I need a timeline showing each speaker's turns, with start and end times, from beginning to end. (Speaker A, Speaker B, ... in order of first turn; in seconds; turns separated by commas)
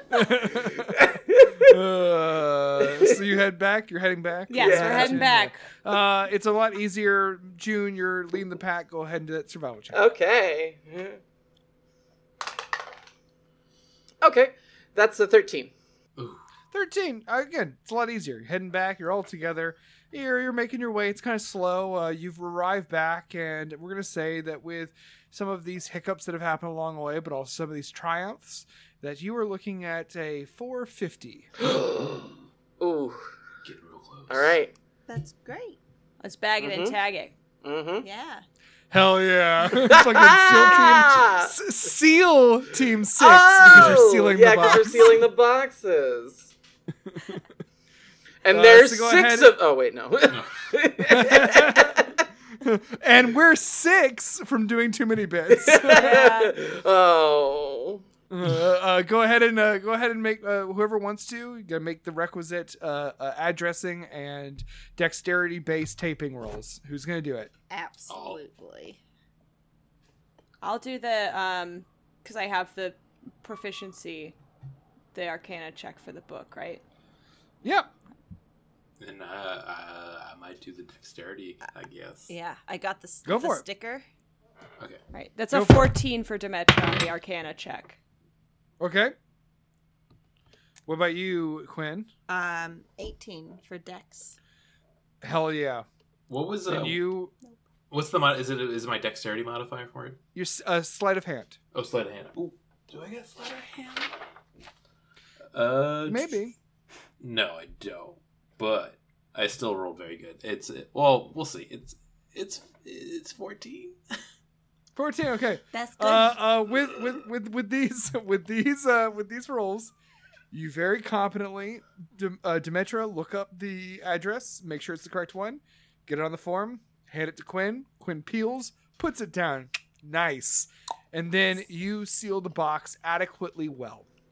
Speaker A: 0.1-1.0, Speaker B: 0.9-1.7, Speaker A: 1.6-10.0, Speaker B: 2.8-3.1, Speaker C: 4.5-5.6, Speaker B: 4.5-5.3, Speaker B: 9.9-11.2, Speaker B: 14.2-15.7, Speaker A: 16.7-31.5, Speaker B: 31.6-32.2, Speaker B: 32.8-33.2, Speaker D: 33.6-34.5, Speaker B: 34.3-34.7, Speaker E: 35.1-35.8, Speaker C: 36.2-37.3, Speaker B: 36.6-37.0, Speaker B: 37.6-38.0, Speaker E: 38.0-38.4, Speaker A: 38.9-45.2, Speaker B: 39.8-41.5, Speaker B: 43.1-46.5, Speaker D: 43.7-44.1, Speaker B: 48.4-52.1, Speaker A: 48.5-49.5, Speaker A: 51.0-52.0, Speaker A: 52.6-56.2, Speaker B: 55.5-58.0, Speaker C: 55.9-56.5, Speaker A: 58.3-67.5, Speaker E: 67.7-69.0, Speaker D: 68.1-68.4, Speaker C: 70.6-74.3, Speaker C: 75.1-76.8, Speaker A: 77.6-77.9, Speaker D: 79.0-82.3, Speaker E: 82.3-84.0, Speaker A: 83.2-83.6, Speaker C: 85.1-88.0, Speaker A: 85.5-85.9, Speaker A: 88.8-89.1, Speaker A: 90.9-92.1, Speaker E: 92.3-94.4, Speaker A: 95.2-95.8, Speaker D: 96.3-97.0, Speaker A: 96.7-97.3, Speaker D: 97.9-100.2, Speaker A: 100.3-101.6, Speaker D: 101.7-104.1, Speaker D: 105.5-106.3, Speaker A: 106.1-106.5, Speaker D: 107.2-114.0, Speaker A: 115.0-119.9, Speaker E: 115.7-116.3, Speaker A: 120.5-134.1